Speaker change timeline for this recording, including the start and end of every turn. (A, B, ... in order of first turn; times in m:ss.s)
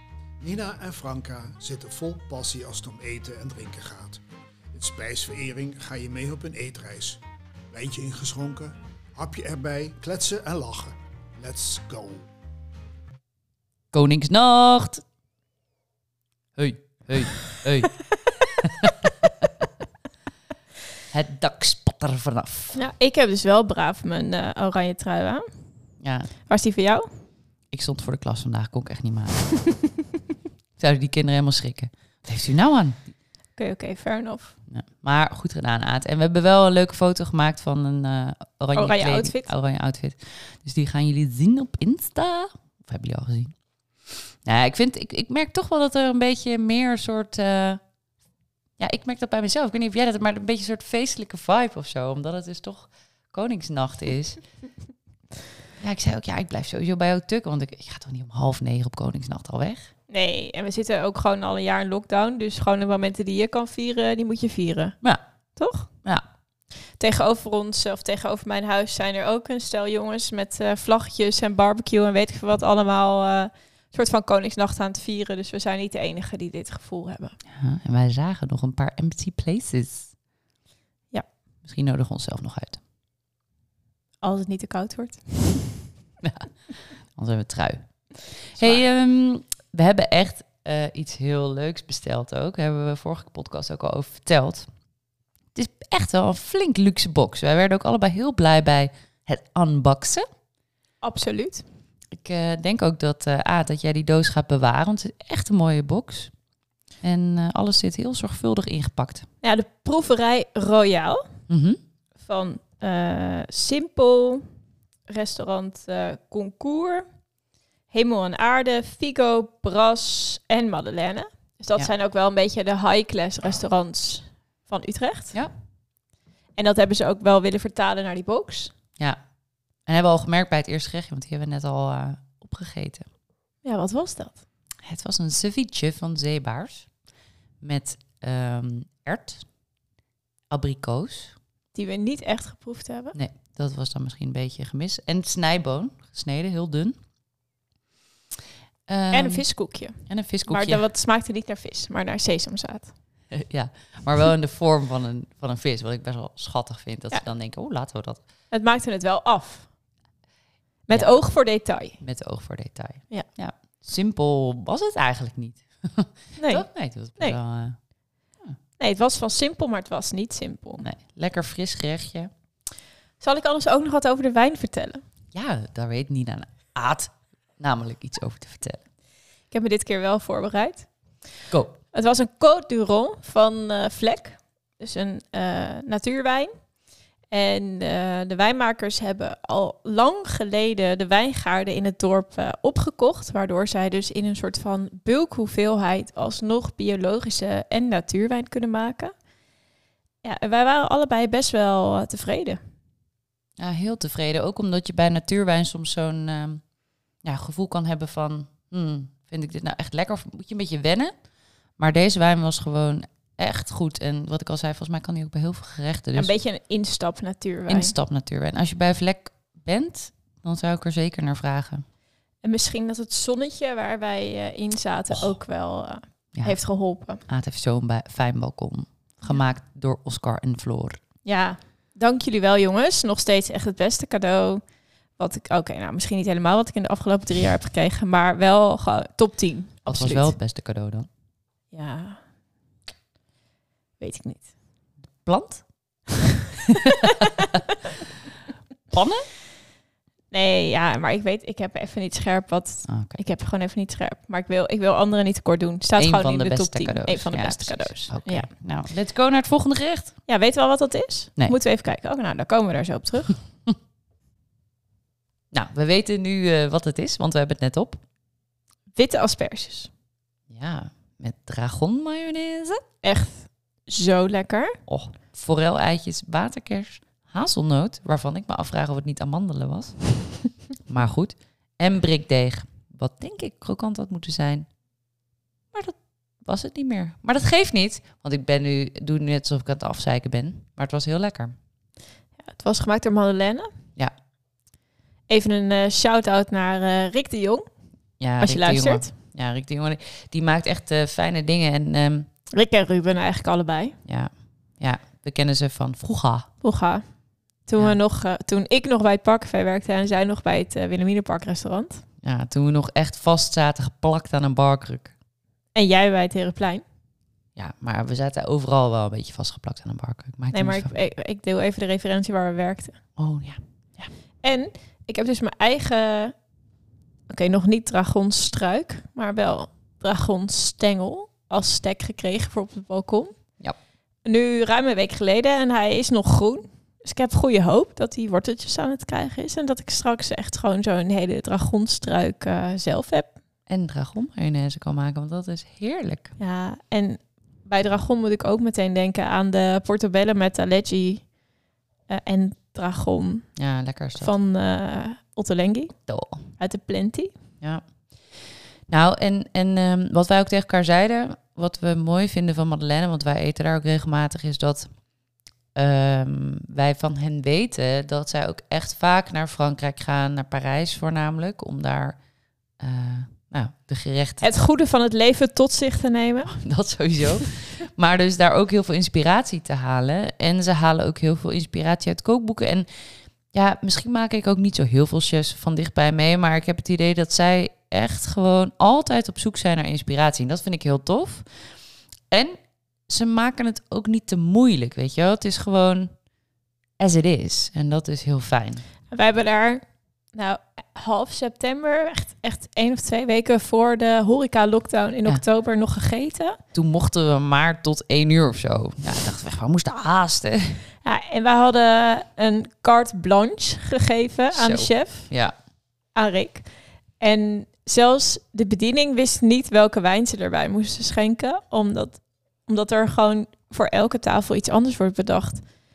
0:00.4-0:04.2 A
0:04.7-0:07.2 A
0:07.7-0:12.3 A
0:13.9-0:15.0 B
0:16.6-0:19.6 B
0:21.1-0:22.8 B
0:22.8-0:25.5 C
0:26.0-0:26.3 B
0:26.5-0:27.1 C
0:27.7-0:29.5 B
0:30.8-0:33.0 B
0:33.6-0:34.6 C
0:34.7-0:43.6 B
0:38.8-0:39.5 C
0:44.1-0:47.8 B
0:48.8-0:54.4 B
0:55.8-0:59.9 B
1:00.1-1:05.0 C
1:05.6-1:05.9 C
1:07.0-1:17.4 C
1:17.5-1:20.1 B
1:21.6-1:22.8 B
1:24.2-1:25.8 C
1:26.2-1:26.5 B
1:27.1-1:34.7 B
1:28.6-1:28.8 C
1:35.6-1:40.2 B
1:41.0-1:41.6 C
1:42.1-1:46.3 B
1:47.0-1:49.3 B
1:49.4-1:51.2 C
1:51.5-1:51.8 B
1:52.2-1:54.5 C
1:55.1-1:57.1 C
1:57.9-2:05.4 C
2:06.6-2:08.7 C
2:09.9-2:13.1 B
2:13.6-2:14.4 C
2:14.8-2:16.9 B
2:17.6-2:19.5 B
2:20.5-2:21.4 B
2:21.7-2:23.2 C
2:23.1-2:27.0 B
2:28.9-2:30.8 B
2:29.1-2:32.9 C
2:33.3-2:38.2 B
2:38.5-2:39.7 C
2:40.9-2:42.0 C
2:40.9-2:41.2 B
2:42.0-2:47.8 B
2:46.4-2:47.4 C
2:48.8-2:50.9 C
2:50.8-2:52.3 B
2:53.2-2:55.0 C
2:55.3-2:58.8 B
2:59.5-3:00.9 C
3:01.5-3:01.8 B
3:01.9-3:06.5 C
3:07.3-3:19.1 C
3:20.2-3:22.6 C
3:23.6-3:26.6 B
3:27.2-3:31.1 B
3:31.8-3:36.3 B
3:36.2-3:37.9 C
3:37.7-3:41.8 B
3:42.4-3:47.2 C
3:46.3-3:46.6 B
3:47.2-3:51.0 B
3:51.2-3:54.6 C
3:55.2-4:00.3 C
3:59.9-4:01.1 B
4:01.7-4:02.2 C
4:04.0-4:04.5 C
4:05.2-4:05.7 B
4:06.8-4:07.6 C
4:06.9-4:07.2 B
4:08.9-4:09.3 B
4:10.3-4:18.5 C
4:12.9-4:13.2 B
4:16.0-4:20.2 B
4:20.3-4:23.4 C
4:25.5-4:28.0 B
4:29.0-4:29.9 C
4:30.5-4:32.8 B
4:33.0-4:34.8 C
4:34.9-4:44.7 B
4:45.7-4:51.6 B
4:52.4-4:53.7 C
4:55.3-4:57.7 C
4:58.2-5:02.3 B
4:58.4-4:59.1 C
5:02.5-5:04.0 C
5:04.0-5:06.5 B
5:06.6-5:12.0 C
5:12.2-5:15.1 B
5:15.7-5:16.8 C
5:17.6-5:20.9 B
5:20.5-5:23.0 C
5:23.2-5:24.1 B
5:24.4-5:26.4 C
5:27.3-5:33.4 C
5:34.2-5:43.3 C
5:43.7-5:46.3 B
5:46.4-5:51.3 C
5:52.1-5:53.5 C
5:53.6-5:54.3 B
5:54.2-5:56.0 C
5:56.1-5:56.5 B
5:56.6-5:57.3 C
5:57.6-6:04.9 B
6:05.8-6:12.2 B
6:12.8-6:14.5 B
6:14.4-6:16.6 C
6:16.5-6:22.9 B
6:23.5-6:31.5 B
6:32.3-6:36.1 B
6:37.0-6:38.8 B
6:39.1-6:46.6 C
6:46.7-6:50.8 B
6:51.0-6:55.3 C
6:54.5-6:55.6 B
6:56.1-7:05.7 C